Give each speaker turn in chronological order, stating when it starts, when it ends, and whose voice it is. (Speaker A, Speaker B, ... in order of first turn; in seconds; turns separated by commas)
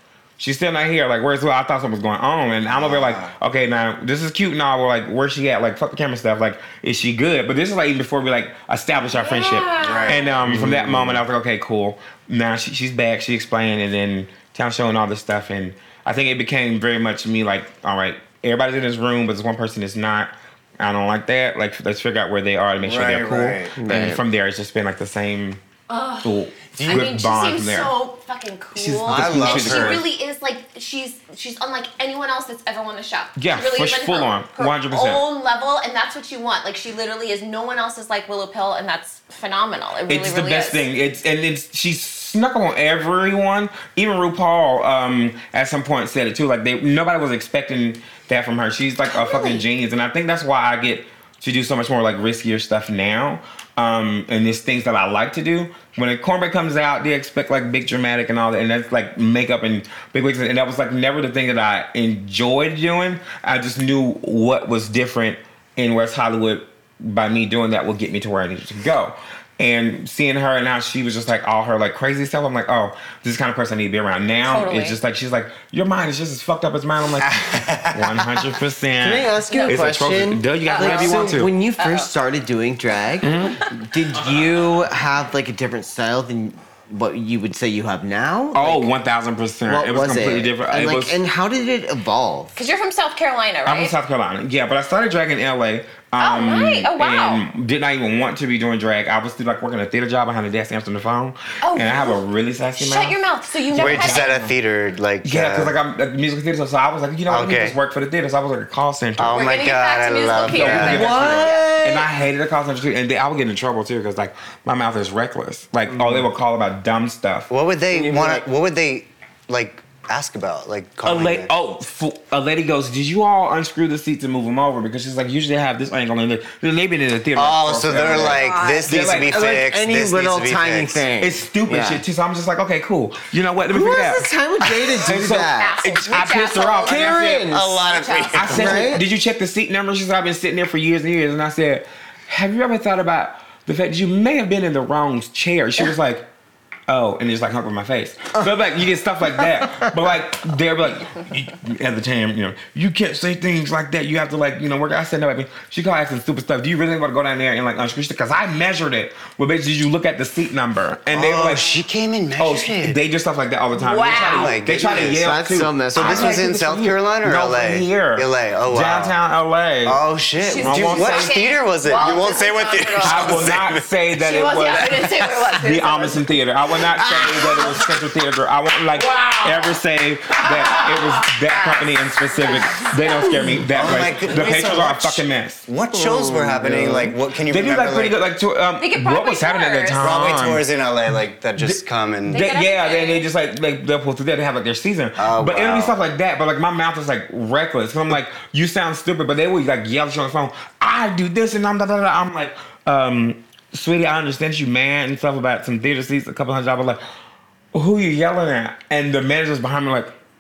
Speaker A: 0.4-25.6, Speaker B: 2.7-3.3, Speaker C: 9.2-10.4, Speaker B: 9.8-11.2, Speaker B: 22.8-23.8, Speaker D: 23.8-24.2, Speaker C: 25.9-40.9, Speaker A: 26.2-27.9, Speaker B: 26.8-27.1, Speaker A: 28.8-30.1, Speaker B: 29.1-30.1, Speaker A: 33.4-35.2, Speaker A: 40.1-81.5, Speaker C: 49.1-49.6, Speaker C: 74.4-75.0, Speaker B: 77.2-78.3, Speaker D: 79.0-88.9, Speaker C: 79.5-79.8, Speaker C: 80.7-82.1, Speaker A: 83.2-83.6, Speaker C: 83.4-83.7, Speaker A: 88.5-91.2, Speaker D: 89.7-92.6, Speaker C: 92.6-94.0, Speaker A: 93.7-104.5, Speaker C: 96.2-97.4, Speaker C: 101.6-102.2, Speaker C: 102.8-104.3, Speaker B: 103.7-105.7, Speaker A: 105.2-109.4, Speaker B: 107.3-107.8, Speaker B: 109.2-111.4, Speaker C: 109.3-111.7, Speaker A: 110.5-117.5, Speaker D: 110.8-112.1, Speaker D: 115.9-116.2, Speaker B: 117.5-121.5, Speaker D: 117.9-118.5, Speaker A: 121.0-129.4, Speaker B: 127.4-131.1, Speaker C: 128.1-129.0, Speaker D: 129.2-132.0, Speaker A: 131.2-137.5, Speaker D: 133.7-135.8, Speaker C: 135.6-137.2, Speaker D: 136.8-137.9, Speaker B: 137.4-138.9, Speaker C: 137.8-138.6, Speaker A: 138.3-146.3, Speaker D: 138.5-139.1, Speaker A: 146.9-161.7, Speaker B: 161.1-163.0, Speaker A: 162.4-170.0, Speaker C: 163.8-164.6, Speaker B: 164.1-165.4, Speaker D: 165.0-166.9, Speaker B: 165.9-169.2, Speaker B: 169.8-173.8, Speaker C: 170.4-173.5, Speaker A: 170.6-171.4, Speaker A: 173.0-185.7, Speaker C: 174.2-176.2, Speaker C: 177.3-177.7, Speaker C: 179.0-179.7, Speaker C: 180.4-183.5, Speaker B: 183.7-188.2, Speaker D: 185.9-187.1, Speaker A: 187.5-190.7, Speaker C: 188.8-190.0, Speaker B: 190.0-192.4, Speaker A: 191.6-207.0, Speaker C: 192.3-193.2, Speaker B: 195.2-196.0, Speaker A: 207.7-210.1